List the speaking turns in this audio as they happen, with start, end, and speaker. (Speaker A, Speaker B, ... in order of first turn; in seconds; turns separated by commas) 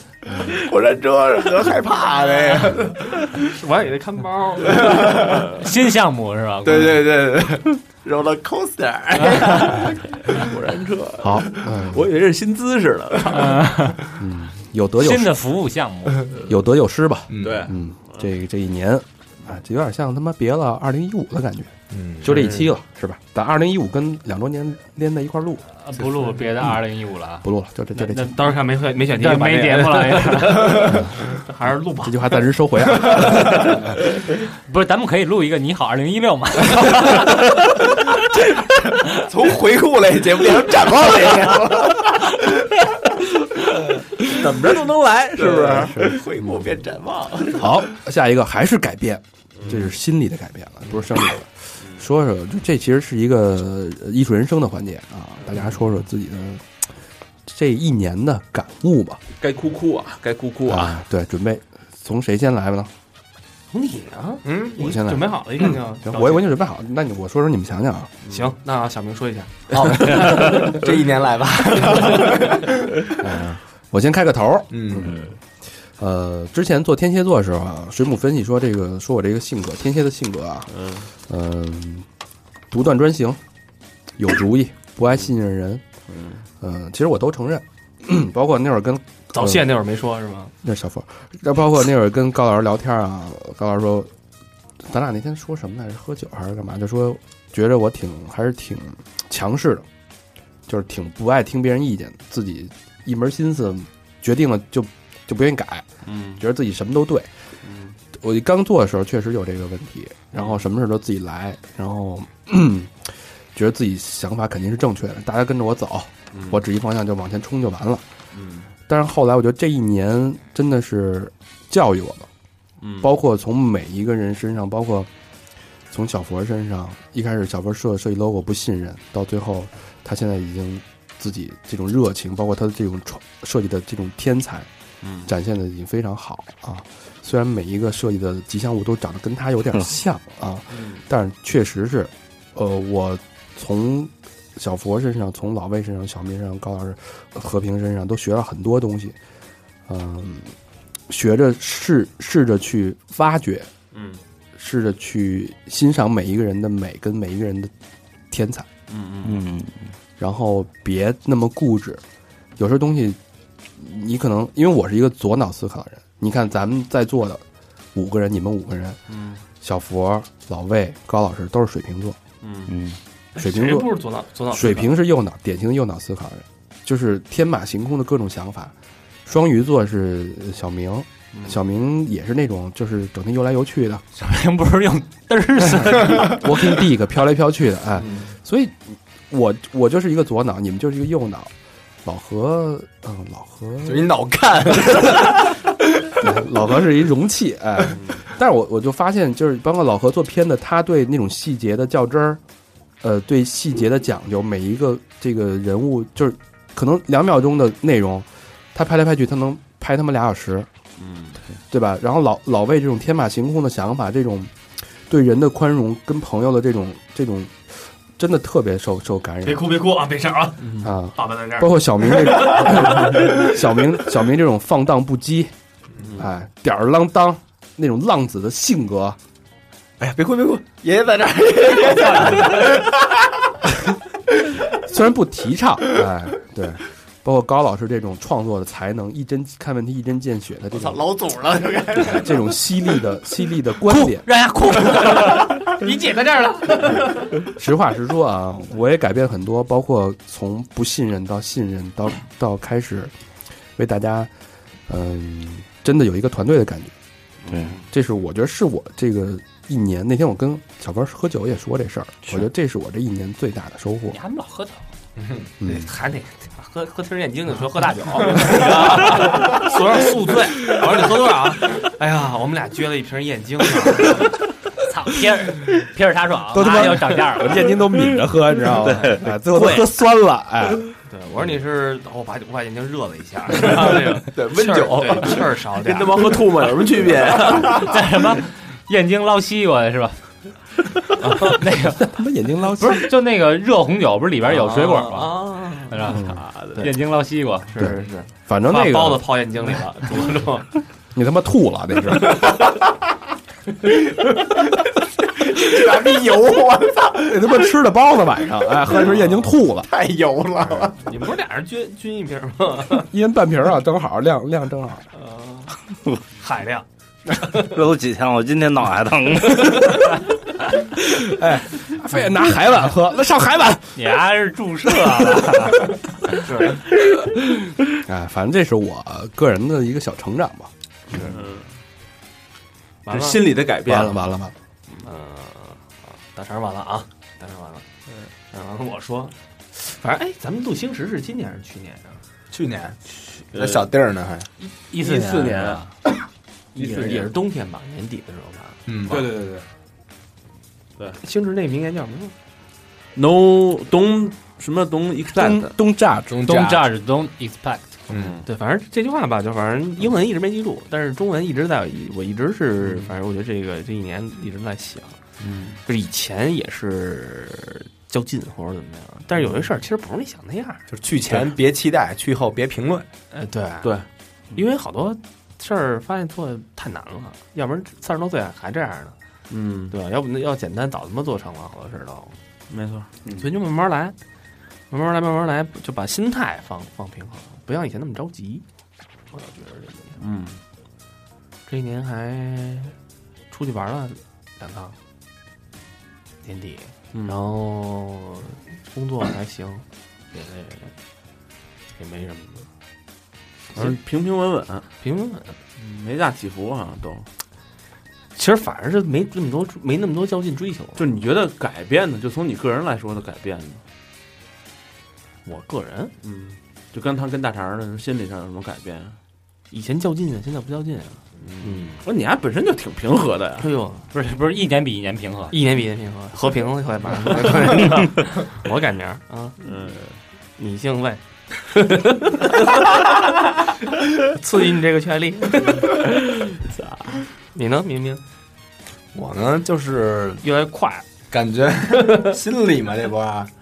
Speaker A: 0.3-0.5, Speaker B: 0.4-3.4, Speaker C: 3.4-5.3, Speaker B: 4.7-5.5, Speaker D: 5.5-7.0, Speaker B: 6.6-10.4, Speaker E: 10.3-13.6, Speaker A: 11.2-12.1, Speaker D: 13.3-14.0, Speaker A: 14.2-15.3, Speaker D: 15.0-16.3, Speaker A: 16.4-25.6, Speaker B: 17.3-17.7, Speaker E: 17.4-18.2, Speaker B: 21.9-22.4, Speaker D: 25.8-28.4, Speaker A: 27.4-28.3, Speaker C: 28.2-32.5, Speaker D: 29.1-31.0, Speaker A: 32.0-34.0, Speaker D: 34.6-37.6, Speaker B: 38.9-42.7, Speaker B: 43.7-44.6, Speaker E: 44.2-46.1, Speaker B: 45.3-47.8, Speaker A: 45.9-46.6, Speaker A: 47.5-56.6, Speaker E: 49.6-49.8, Speaker A: 57.5-59.2, Speaker E: 59.4-61.0, Speaker A: 60.7-62.9, Speaker C: 63.7-66.5, Speaker B: 64.4-64.8, Speaker A: 64.8-68.1, Speaker E: 68.2-68.5, Speaker C: 68.2-69.6, Speaker B: 69.7-73.6, Speaker C: 70.2-70.7, Speaker A: 73.2-75.2, Speaker B: 74.7-75.2, Speaker A: 76.0-80.7, Speaker E: 80.7-81.1, Speaker A: 81.3-82.1, Speaker A: 82.7-83.4, Speaker A: 84.2-85.8, Speaker E: 86.1-86.4, Speaker A: 86.6-89.7, Speaker C: 89.3-90.5, Speaker A: 90.6-94.1, Speaker A: 94.8-99.8, Speaker A: 100.7-107.3, Speaker E: 106.0-106.4, Speaker E: 107.6-108.0, Speaker A: 108.1-118.0, Speaker E: 110.3-110.6, Speaker E: 116.3-116.6, Speaker E: 118.3-118.7, Speaker A: 118.9-122.3, Speaker E: 122.8-123.1, Speaker A: 123.0-125.1, Speaker A: 125.9-134.7, Speaker E: 135.0-135.3, Speaker A: 135.2-149.2, Speaker E: 140.7-141.0, Speaker A: 149.9-150.5, Speaker A: 151.1-153.7, Speaker E: 153.9-154.2, Speaker A: 154.6-157.7, Speaker A: 158.3-158.7, Speaker E: 158.9-159.4, Speaker F: 159.2-159.9, Speaker A: 160.2-162.0, Speaker A: 162.6-163.2, Speaker A: 163.8-167.4, Speaker A: 167.9-169.0, Speaker E: 169.1-169.4, Speaker A: 169.6-172.2, Speaker E: 172.4-172.7, Speaker F: 172.7-173.0, Speaker C: 173.3-174.9, Speaker A: 173.3-174.0, Speaker A: 174.5-178.7, Speaker A: 179.2-184.0, Speaker E: 181.3-181.6, Speaker D: 184.1-186.5, Speaker A: 185.7-191.5, Speaker E: 188.0-188.2, Speaker A: 192.0-194.1, Speaker B: 193.8-195.7, Speaker A: 196.2-202.4, Speaker A: 203.0-210.7, Speaker E: 211.0-211.4, Speaker A: 211.7-214.5, Speaker A: 215.1-219.8, Speaker C: 219.4-223.2, Speaker A: 220.8-225.5, Speaker A: 226.2-229.2, Speaker B: 230.0-233.3, Speaker A: 234.8-241.1, Speaker B: 240.8-242.3, Speaker A: 242.0-244.3, Speaker D: 243.9-245.7, Speaker C: 244.9-247.3, Speaker A: 247.4-253.1, Speaker A: 253.8-254.3, Speaker A: 254.9-256.9, Speaker F: 257.5-257.8, Speaker A: 257.9-264.2, Speaker D: 264.1-264.9, Speaker B: 265.2-265.5, Speaker A: 265.6-265.9, Speaker C: 265.6-274.3, Speaker D: 274.8-277.7, Speaker A: 276.5-280.9, Speaker F: 278.8-279.2, Speaker C: 281.1-286.5, Speaker B: 284.3-285.5, Speaker E: 285.8-287.9, Speaker D: 287.6-290.2, Speaker D: 291.3-292.1, Speaker A: 291.8-293.1, Speaker D: 292.8-295.4, Speaker C: 294.4-296.9, Speaker D: 295.9-296.2, Speaker A: 296.1-296.4, Speaker D: 296.8-297.9, Speaker C: 297.7-300.8, Speaker A: 297.8-299.2, Speaker A: 301.1-302.5, Speaker B: 303.9-304.5, Speaker B: 305.4-307.6, Speaker A: 307.2-309.9, Speaker C: 309.1-309.5, Speaker B: 309.8-311.1, Speaker C: 311.0-313.1, Speaker A: 313.0-315.0, Speaker C: 315.1-315.7, Speaker C: 316.4-317.7, Speaker F: 317.6-320.1, Speaker A: 321.0-324.1, Speaker D: 323.9-325.9, Speaker A: 325.1-325.4, Speaker C: 326.4-326.9, Speaker A: 327.9-331.3, Speaker C: 331.1-331.4, Speaker E: 331.1-331.7, Speaker C: 333.1-333.5, Speaker E: 333.1-334.2, Speaker A: 333.8-334.5, Speaker C: 335.0-337.8, Speaker C: 338.5-342.2, Speaker B: 342.5-343.0, Speaker B: 343.5-345.7, Speaker E: 343.5-343.9, Speaker C: 344.9-345.8, Speaker E: 345.0-345.8, Speaker C: 346.7-348.8, Speaker E: 346.8-347.3, Speaker B: 348.9-349.3, Speaker E: 349.1-349.3, Speaker A: 349.1-349.6, Speaker C: 351.2-352.3, Speaker E: 353.1-355.8, Speaker A: 355.3-356.4, Speaker B: 356.3-356.9, Speaker D: 356.4-357.9, Speaker B: 358.1-358.4, Speaker E: 358.1-358.4, Speaker C: 358.4-365.2, Speaker E: 365.4-365.8, Speaker C: 365.9-370.8, Speaker B: 370.9-373.1, Speaker C: 373.3-373.9, Speaker C: 374.5-379.1, Speaker E: 379.5-379.9, Speaker C: 379.9-382.3, Speaker E: 382.7-383.4, Speaker C: 383.2-384.1, Speaker C: 384.9-388.6, Speaker C: 389.3-390.2, Speaker E: 390.2-390.6, Speaker C: 391.7-392.9, Speaker C: 393.5-394.9, Speaker C: 396.4-400.9, Speaker C: 401.9-402.7, Speaker C: 403.7-404.0, Speaker E: 403.7-404.9, Speaker C: 405.0-405.6, Speaker E: 405.8-407.3, Speaker C: 408.4-411.1, Speaker E: 411.0-413.8, Speaker C: 415.4-416.1, Speaker E: 416.2-419.2, Speaker C: 419.7-422.0, Speaker E: 421.4-423.7, Speaker C: 423.6-424.1, Speaker D: 424.1-425.6, Speaker C: 425.5-429.8, Speaker E: 429.6-430.2, Speaker C: 430.6-433.2, Speaker C: 434.0-436.1, Speaker C: 437.5-438.2, Speaker B: 439.1-440.4, Speaker C: 440.4-441.1, Speaker B: 441.3-443.5